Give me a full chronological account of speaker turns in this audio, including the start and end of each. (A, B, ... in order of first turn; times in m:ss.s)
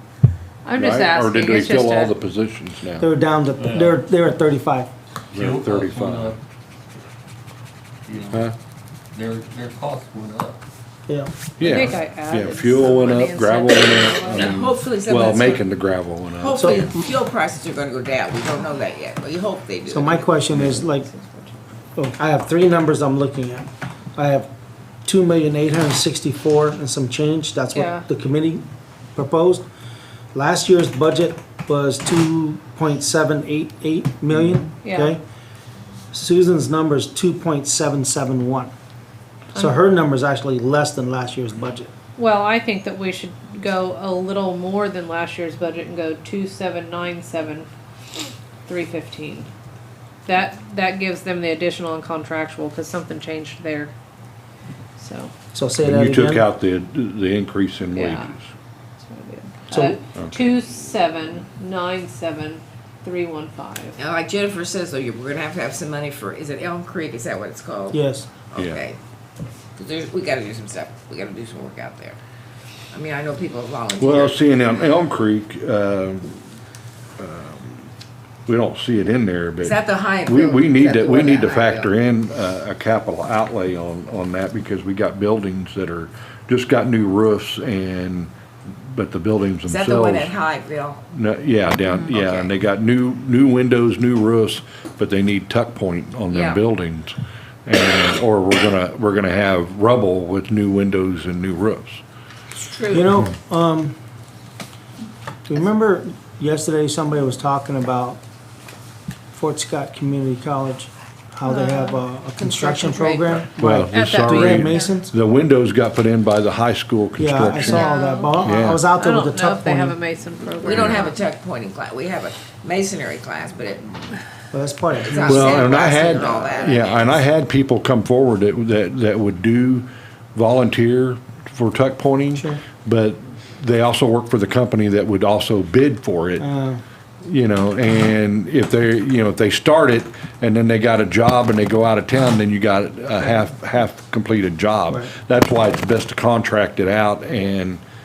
0:00.6-0:02.1 A
0:00.8-0:03.1 B
0:03.0-0:04.9 C
0:03.6-0:04.0 D
0:05.3-0:06.4 B
0:05.3-0:06.4 D
0:08.0-0:08.5 D
0:09.1-0:10.6 D
0:11.6-0:16.8 B
0:11.6-0:14.5 A
0:14.3-0:15.6 E
0:16.4-0:20.3 E
0:16.5-0:17.1 C
0:19.8-0:21.1 C
0:20.5-0:21.6 A
0:22.0-0:24.5 C
0:25.0-0:28.6 C
0:27.7-0:28.0 A
0:29.1-0:29.6 C
0:30.3-0:35.2 C
0:34.8-0:35.1 A
0:36.1-0:38.7 C
0:39.6-0:41.9 C
0:42.2-0:47.7 A
0:48.6-0:49.5 A
0:50.2-0:53.9 A
0:55.0-0:55.3 A
0:55.5-0:56.5 C
0:55.8-0:58.4 B
0:58.0-0:58.3 A
0:59.0-1:04.0 A
0:59.7-1:00.0 C
1:04.0-1:09.0 E
1:07.9-1:08.3 C
1:09.8-1:12.2 E
1:12.9-1:14.4 E
1:14.0-1:16.4 B
1:17.2-1:17.9 B
1:18.5-1:30.3 B
1:19.6-1:21.9 E
1:29.7-1:31.0 E
1:31.1-1:42.0 B
1:32.0-1:32.5 E
1:36.3-1:36.6 E
1:42.5-1:43.1 E
1:42.9-1:44.0 C
1:45.5-1:48.2 C
1:49.3-1:55.1 C
1:51.4-1:52.0 A
1:52.4-1:53.4 E
1:53.6-1:57.9 B
1:53.9-1:54.9 A
1:57.2-2:00.0 C
1:57.6-2:01.2 A
1:58.4-1:58.9 B
2:00.6-2:04.2 E
2:04.5-2:05.7 C
2:04.9-2:07.2 E
2:05.2-2:16.4 B
2:12.3-2:12.6 C
2:16.4-2:16.8 C
2:17.2-2:27.8 B
2:24.9-2:25.1 C